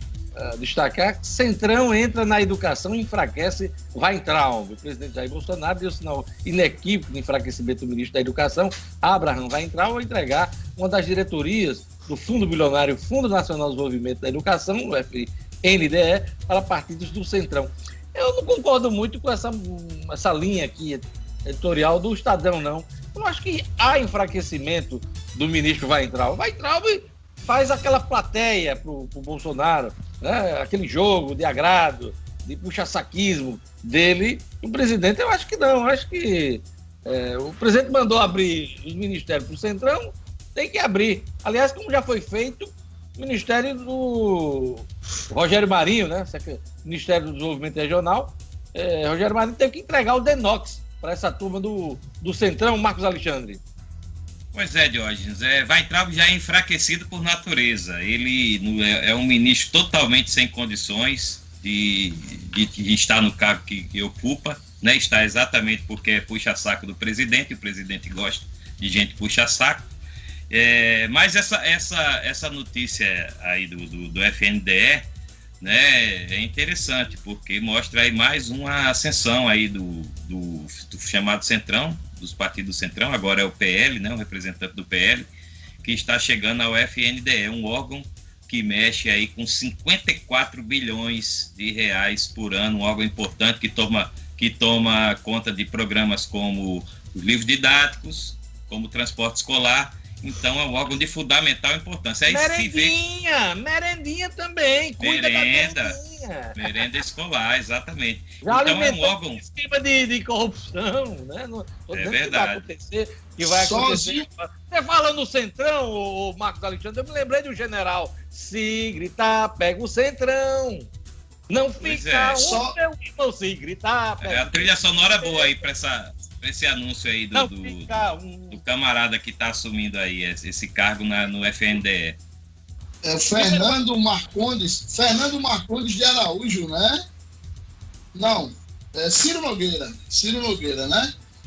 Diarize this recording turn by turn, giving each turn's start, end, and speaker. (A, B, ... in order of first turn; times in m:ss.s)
0:00.4-0:53.6 A
0:54.5-1:09.9 B
1:10.5-1:15.1 B
1:15.6-1:25.3 B
1:25.8-1:43.0 B
1:42.3-1:47.0 A
1:45.0-1:46.0 B
1:46.6-1:49.4 B
1:48.4-2:00.9 A
1:51.9-1:52.6 B
1:53.4-1:54.3 C
2:01.5-2:05.6 A
2:01.8-2:02.4 B
2:02.4-2:02.8 C
2:04.2-2:08.0 B
2:07.3-2:08.6 A
2:08.5-2:12.2 B
2:13.0-2:17.0 C
2:13.4-2:13.7 A
2:18.1-2:21.1 C